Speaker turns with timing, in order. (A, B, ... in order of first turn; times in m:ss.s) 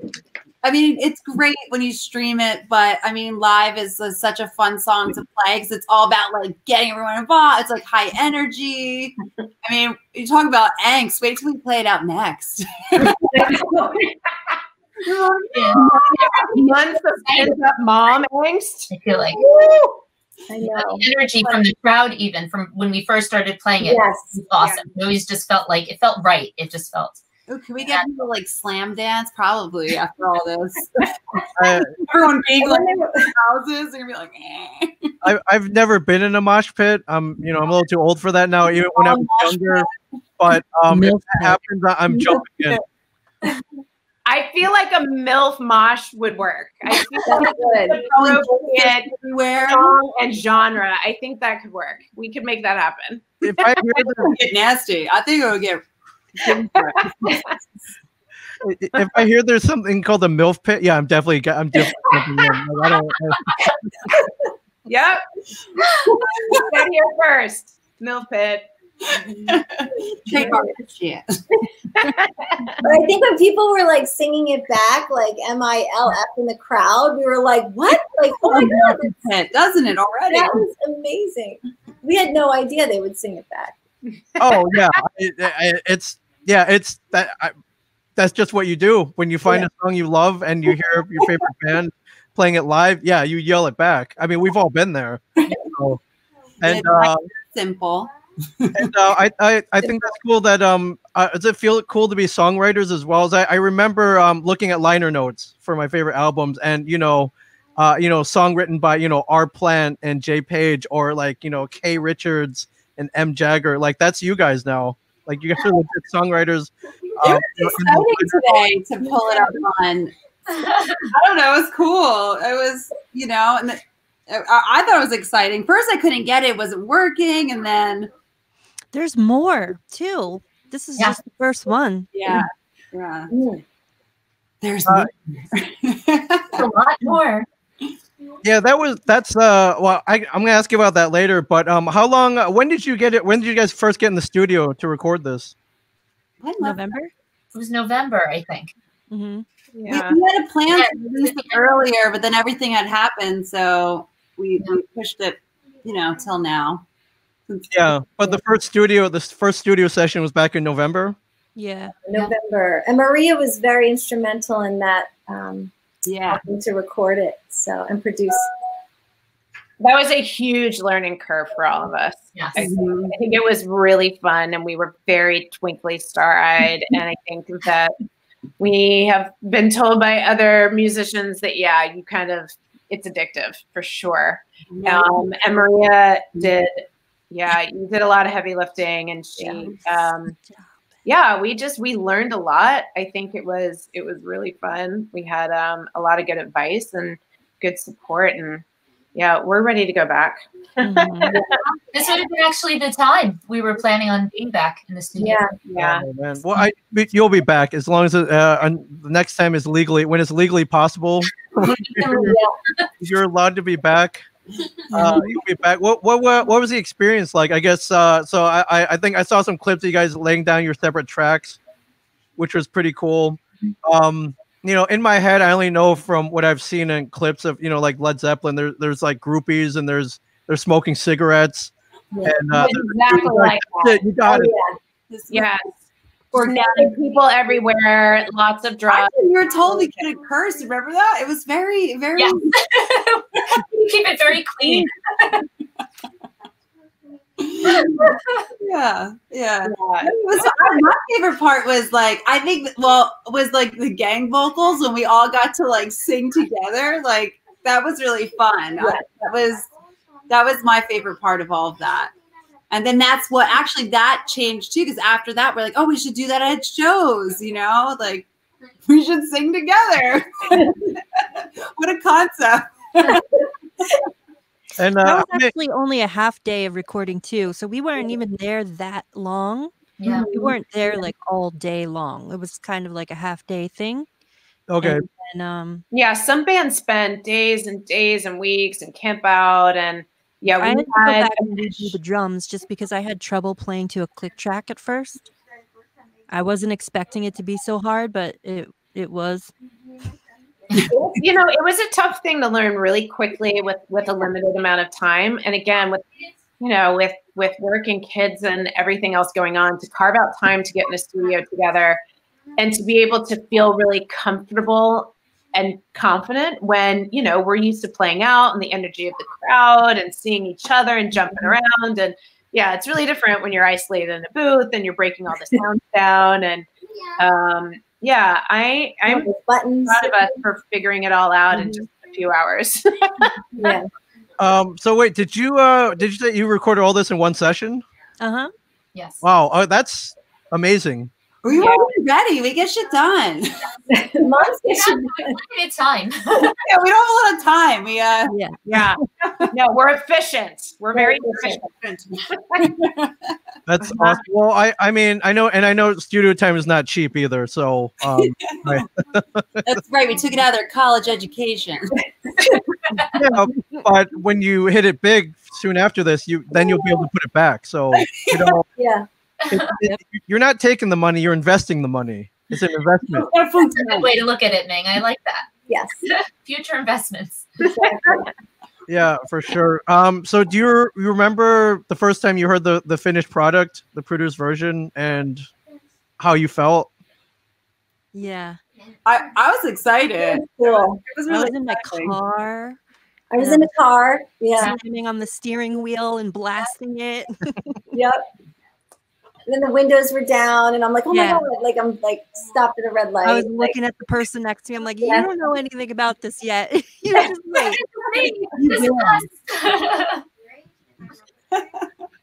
0:00.6-0:13.4 A
0:13.4-0:13.8 B
0:13.4-0:14.6 C
0:15.5-0:17.6 D
0:15.6-0:18.9 C
0:18.9-0:19.4 D
0:19.3-0:19.8 A
0:20.5-0:21.1 B
0:20.8-0:27.2 D
0:23.8-0:24.4 B
0:27.5-0:35.1 A
0:31.6-0:31.9 E
0:32.6-0:33.3 B
0:35.2-0:39.9 E
0:39.0-0:39.9 A
0:40.4-0:42.8 E
0:40.9-0:41.6 F
0:44.3-0:49.1 C
0:47.2-0:48.0 B
0:47.4-0:50.0 A
0:49.7-0:54.0 C
0:53.4-0:54.4 E
0:54.2-0:57.4 A
0:56.7-0:57.5 C
0:58.6-1:03.7 E
1:04.9-1:05.2 C
1:06.0-1:08.7 C
1:06.4-1:06.8 A
1:09.0-1:11.4 A
1:10.3-1:10.7 B
1:11.9-1:12.8 C
1:12.8-1:19.3 B
1:18.4-1:20.6 A
1:20.3-1:23.8 B
1:24.4-1:24.8 C
1:24.4-1:27.5 E
1:28.2-1:36.0 E
1:36.6-1:37.3 E
1:36.6-1:38.9 A
1:38.8-1:58.6 E
1:57.2-2:00.1 A
2:00.5-2:01.1 D
2:01.1-2:08.1 A
2:08.9-2:12.4 F
2:12.1-2:13.3 A
2:13.3-2:13.6 B
2:14.6-2:16.7 A
2:16.6-2:17.5 D
2:18.4-2:25.6 E
2:26.4-2:27.0 A
2:26.6-2:27.1 F
2:27.5-2:28.7 D
2:29.1-2:29.4 F
2:29.8-2:30.2 C
2:29.9-2:36.8 A
2:30.7-2:31.7 D
2:37.5-2:38.4 A
2:37.7-2:41.2 E
2:41.6-2:41.9 F
2:42.1-2:45.7 B
2:46.0-2:46.4 A
2:46.3-2:48.5 B
2:49.8-2:58.0 C
2:52.6-2:53.2 A
2:58.6-3:10.3 C
3:04.7-3:05.6 A
3:09.4-3:09.8 A
3:10.3-3:10.9 F
3:11.0-3:18.6 C
3:19.2-3:21.6 C
3:20.8-3:21.4 F
3:21.9-3:25.5 D
3:25.2-3:25.6 B
3:25.6-3:26.1 C
3:25.8-3:32.4 E
3:31.6-3:32.9 D
3:32.1-3:32.5 B
3:33.0-3:34.2 E
3:34.9-3:41.6 E
3:34.9-3:35.2 F
3:42.4-3:51.7 E
3:52.1-3:52.4 B
3:52.2-3:54.5 E
3:52.5-3:54.0 C
3:54.2-3:54.8 B
3:55.1-3:55.6 A
3:55.3-3:55.7 C
3:56.3-3:57.6 A
3:56.4-3:59.2 C
3:58.9-4:02.7 A
4:02.2-4:05.4 D
4:04.6-4:04.9 A
4:07.4-4:19.7 A
4:07.8-4:08.4 D
4:09.6-4:10.2 C
4:18.8-4:19.1 B
4:20.3-4:22.1 A
4:22.7-4:28.3 A
4:28.8-4:33.2 A
4:34.8-4:35.5 E
4:35.0-4:39.7 F
4:40.0-4:40.3 D
4:40.0-4:40.6 A
4:40.3-4:44.1 F
4:44.7-4:45.0 E
4:44.8-4:45.8 F
4:45.9-4:51.9 C
4:50.6-4:55.3 F
4:56.3-4:59.5 F
5:00.8-5:06.0 C
5:06.6-5:12.0 C
5:12.6-5:26.7 C
5:27.2-5:29.3 C
5:29.1-5:30.3 B
5:29.9-5:33.8 C
5:31.5-5:31.8 B
5:33.6-5:33.9 B
5:34.4-5:37.8 E
5:38.2-5:38.5 F
5:38.9-5:39.2 D
5:39.2-5:41.1 E
5:41.4-5:43.7 A
5:41.5-5:41.9 C
5:43.9-5:45.4 B
5:44.7-5:46.6 D
5:46.3-5:49.5 A
5:48.3-5:48.6 F
5:48.7-5:49.0 C
5:49.5-5:51.7 C
5:51.0-5:51.6 B
5:51.7-5:53.4 A
5:52.3-5:52.6 C
5:53.7-5:59.8 E
5:53.9-5:54.2 C
5:58.2-5:58.9 A
5:59.6-6:02.0 A
6:02.4-6:02.6 B
6:03.1-6:08.7 E
6:07.9-6:08.6 A
6:08.8-6:09.1 B
6:09.4-6:09.7 D
6:09.5-6:13.3 E
6:13.1-6:14.1 A
6:13.7-6:15.5 D
6:15.7-6:16.0 B
6:16.0-6:17.5 D
6:17.6-6:18.3 B
6:18.9-6:25.5 E
6:26.2-6:26.9 E
6:28.1-6:28.6 F
6:29.0-6:32.2 A
6:30.2-6:31.0 B
6:31.3-6:32.8 F
6:33.3-6:34.8 B
6:33.4-6:33.7 F
6:34.6-6:37.8 F
6:37.9-6:38.2 B
6:39.5-6:43.7 B
6:41.1-6:41.5 F
6:43.2-6:47.8 F
6:45.0-6:45.3 B
6:48.1-6:50.2 D
6:48.2-6:49.3 A
6:51.5-6:51.9 A